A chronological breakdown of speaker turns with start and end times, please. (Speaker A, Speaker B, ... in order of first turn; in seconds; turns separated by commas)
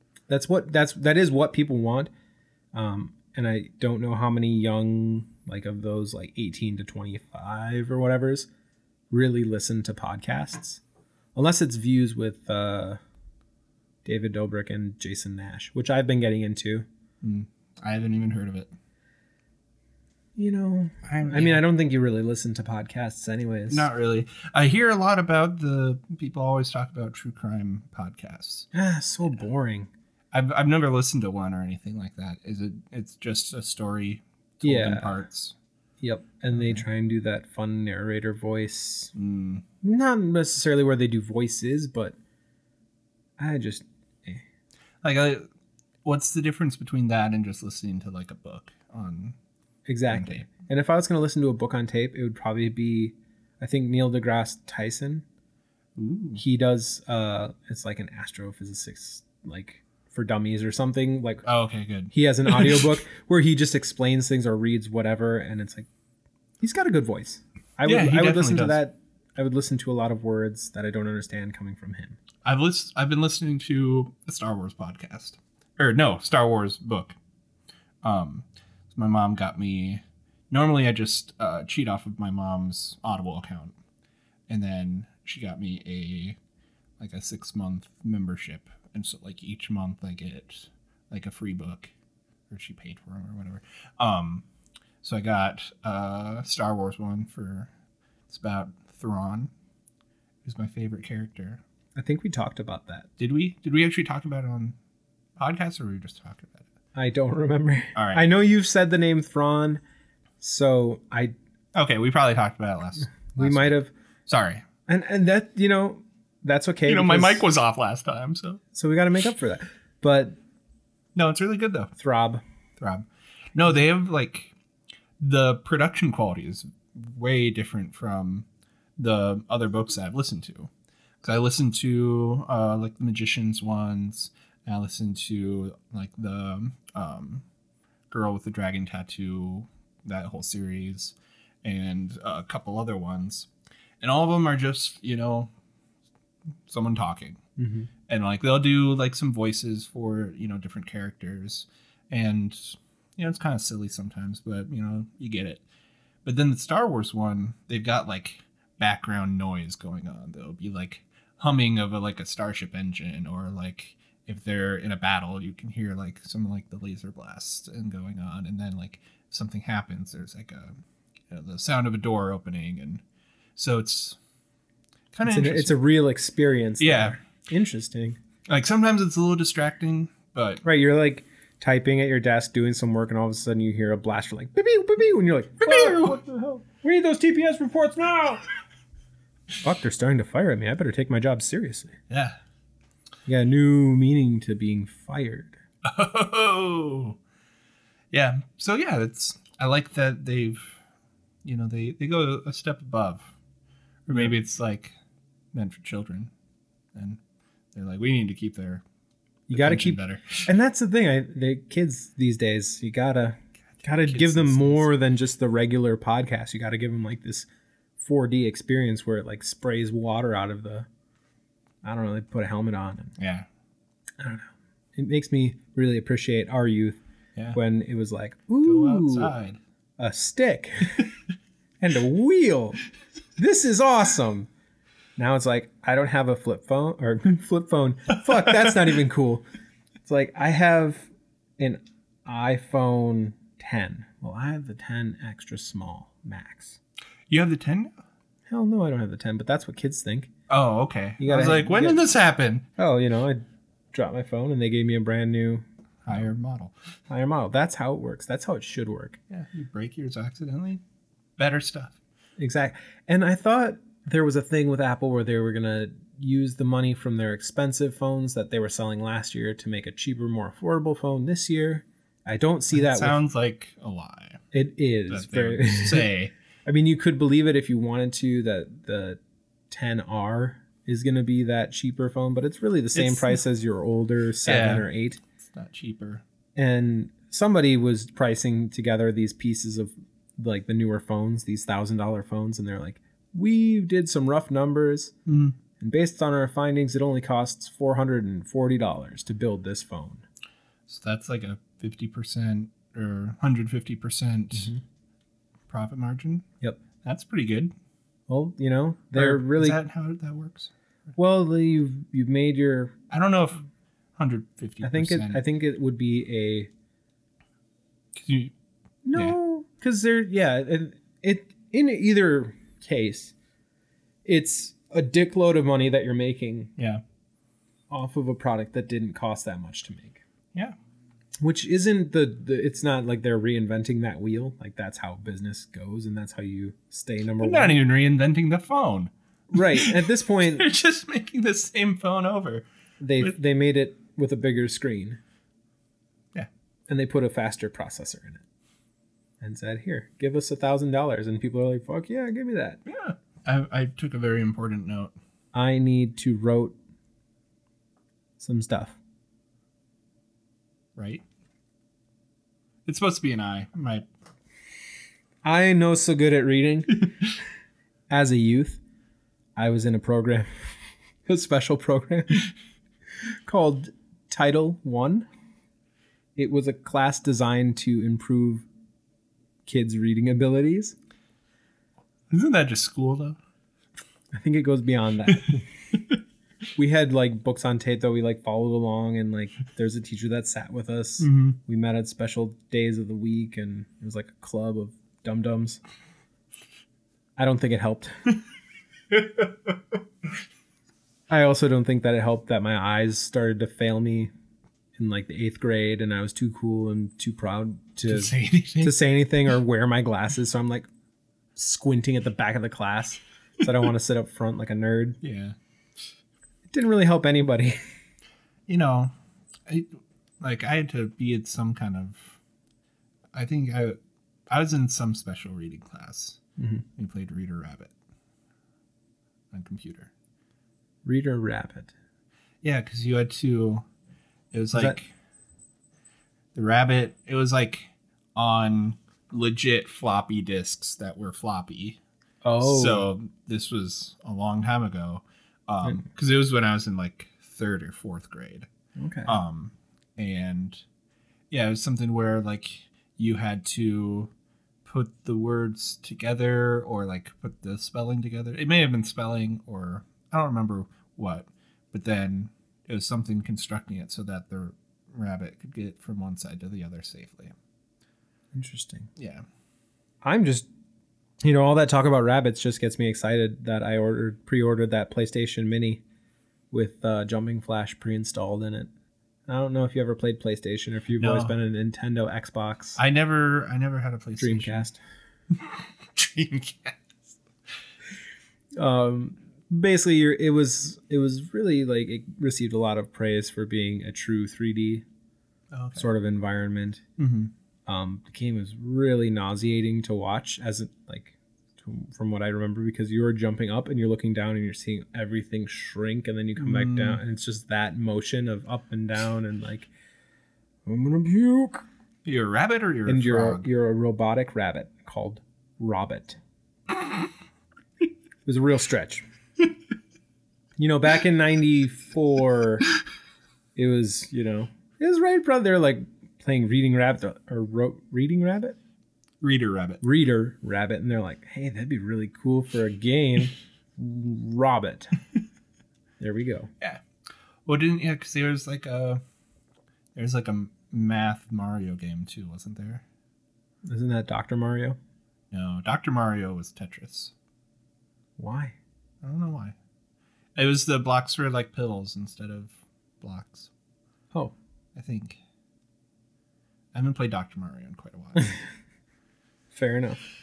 Speaker A: 0.3-2.1, Speaker A: 2.7-8.5, Speaker A: 9.1-10.8, Speaker A: 11.3-13.0, Speaker A: 14.0-16.9, Speaker B: 17.2-18.7, Speaker A: 20.4-23.9, Speaker B: 21.0-21.6, Speaker B: 23.7-28.7, Speaker A: 28.7-29.9, Speaker B: 30.3-35.5, Speaker A: 34.6-35.2, Speaker A: 36.0-39.1, Speaker B: 36.5-36.8, Speaker B: 39.1-39.6, Speaker A: 39.8-42.1, Speaker A: 43.4-44.4, Speaker B: 45.0-45.4, Speaker B: 46.0-49.4, Speaker A: 49.9-55.2, Speaker B: 50.1-50.5, Speaker B: 56.0-56.4, Speaker A: 56.4-61.4, Speaker B: 61.4-62.9, Speaker A: 62.1-65.9, Speaker A: 66.6-72.2, Speaker B: 67.8-68.8, Speaker B: 72.4-77.2, Speaker B: 78.0-83.7, Speaker B: 84.5-86.4, Speaker B: 87.0-91.9, Speaker B: 92.5-94.4, Speaker B: 95.0-97.7, Speaker B: 98.3-99.5, Speaker B: 100.4-101.6, Speaker A: 101.9-103.1, Speaker B: 103.2-104.8, Speaker B: 105.4-106.7, Speaker A: 106.9-109.8, Speaker B: 107.9-108.3, Speaker A: 110.4-111.3, Speaker B: 111.7-113.7, Speaker A: 113.3-113.9, Speaker B: 114.3-114.7, Speaker A: 114.9-117.4, Speaker B: 116.8-118.6, Speaker A: 118.7-120.4, Speaker B: 121.1-121.9, Speaker A: 122.0-122.4, Speaker B: 122.8-124.5, Speaker B: 125.2-128.4, Speaker B: 129.0-130.7, Speaker B: 131.2-137.4, Speaker B: 138.1-143.5, Speaker B: 144.0-145.5, Speaker B: 146.7-147.4, Speaker A: 147.6-147.9, Speaker B: 148.1-155.6, Speaker B: 156.2-170.8, Speaker B: 171.3-173.0, Speaker B: 173.6-174.2, Speaker B: 175.1-175.8, Speaker A: 175.2-178.2, Speaker B: 176.8-177.2, Speaker B: 178.5-180.6, Speaker A: 180.6-188.4, Speaker B: 185.6-186.2, Speaker A: 189.6-192.0, Speaker B: 192.1-192.4, Speaker A: 193.2-195.5, Speaker B: 195.8-197.2, Speaker B: 198.1-200.8, Speaker B: 201.4-203.3, Speaker B: 204.1-204.9, Speaker B: 205.5-206.3, Speaker B: 206.9-207.2, Speaker B: 207.7-208.8, Speaker A: 209.5-217.5, Speaker B: 209.5-210.5, Speaker B: 213.8-214.9, Speaker A: 218.0-220.9, Speaker A: 221.8-223.1, Speaker B: 223.2-223.5, Speaker A: 224.2-227.0, Speaker A: 227.5-229.3, Speaker B: 228.6-229.6, Speaker A: 230.0-231.1, Speaker A: 231.8-232.8, Speaker A: 233.4-234.5, Speaker A: 235.2-239.4, Speaker A: 240.0-246.8, Speaker B: 247.3-247.9, Speaker A: 248.5-250.3, Speaker B: 250.5-252.7, Speaker A: 251.2-252.0, Speaker A: 252.8-255.6, Speaker B: 256.0-256.7, Speaker A: 257.1-259.2, Speaker B: 259.3-260.8, Speaker B: 261.4-262.0, Speaker A: 262.4-273.2, Speaker B: 272.7-274.4, Speaker A: 274.5-276.1, Speaker B: 275.1-276.3, Speaker A: 276.6-285.2, Speaker B: 282.9-283.4, Speaker B: 284.4-284.9, Speaker B: 285.4-286.2, Speaker A: 286.6-295.1, Speaker B: 295.2-295.6, Speaker A: 295.8-300.2, Speaker B: 300.9-304.7, Speaker A: 304.5-304.8, Speaker B: 305.7-306.4, Speaker B: 307.0-307.7, Speaker A: 308.3-309.8, Speaker B: 309.1-310.7, Speaker A: 311.1-312.9, Speaker B: 313.1-313.6, Speaker B: 314.2-315.4, Speaker A: 314.8-316.7, Speaker B: 318.1-318.5, Speaker A: 319.0-323.3, Speaker A: 324.2-326.7, Speaker A: 327.9-330.2, Speaker A: 331.4-337.8, Speaker B: 337.4-342.6, Speaker A: 339.5-340.6, Speaker A: 343.0-345.2, Speaker A: 346.9-348.4, Speaker A: 349.4-352.8, Speaker B: 352.9-355.1, Speaker A: 355.5-356.8, Speaker A: 358.4-359.0, Speaker B: 360.9-361.2, Speaker B: 362.9-364.0, Speaker A: 365.4-367.1, Speaker A: 368.1-368.8, Speaker A: 369.6-372.5, Speaker A: 373.4-375.2, Speaker A: 376.4-378.7, Speaker A: 379.6-380.9, Speaker B: 382.3-383.4, Speaker A: 384.3-385.7, Speaker A: 386.8-395.8, Speaker B: 391.2-391.6, Speaker A: 397.4-398.3, Speaker A: 401.3-404.3, Speaker A: 405.0-410.9, Speaker B: 408.1-409.0, Speaker A: 411.6-415.2, Speaker B: 415.2-415.6, Speaker A: 416.7-417.8, Speaker B: 418.7-419.1, Speaker B: 419.7-422.4, Speaker B: 423.3-424.0, Speaker B: 424.5-426.4, Speaker A: 426.6-426.8, Speaker B: 427.0-427.9, Speaker B: 429.5-430.1, Speaker A: 431.0-431.9, Speaker B: 432.6-433.9, Speaker B: 434.5-435.1, Speaker B: 436.5-442.0, Speaker A: 442.4-443.1, Speaker B: 442.6-448.7, Speaker A: 449.0-449.4, Speaker B: 449.2-450.8, Speaker B: 451.5-454.3, Speaker B: 454.8-467.5, Speaker A: 468.5-469.1, Speaker B: 469.1-469.4, Speaker A: 470.2-470.7, Speaker A: 471.4-476.0, Speaker A: 476.7-478.9, Speaker A: 479.5-483.0, Speaker B: 481.2-481.6, Speaker B: 483.0-484.8, Speaker A: 484.4-485.0, Speaker B: 485.6-487.4, Speaker A: 488.8-495.0, Speaker B: 495.7-496.1, Speaker A: 495.9-497.0, Speaker B: 497.2-497.5, Speaker A: 497.9-509.9, Speaker B: 506.6-507.2, Speaker A: 510.9-511.8, Speaker B: 512.2-513.7, Speaker A: 513.1-516.4, Speaker A: 518.4-519.2, Speaker A: 520.8-522.9, Speaker A: 523.7-528.8, Speaker B: 529.4-530.0, Speaker A: 530.0-535.1, Speaker A: 536.2-536.7, Speaker B: 537.6-539.2, Speaker B: 540.1-543.0, Speaker A: 543.8-545.0, Speaker B: 545.5-547.3, Speaker A: 548.4-548.8, Speaker B: 549.2-549.8, Speaker B: 550.5-553.7, Speaker B: 554.9-555.4, Speaker B: 556.9-558.6, Speaker A: 559.7-560.2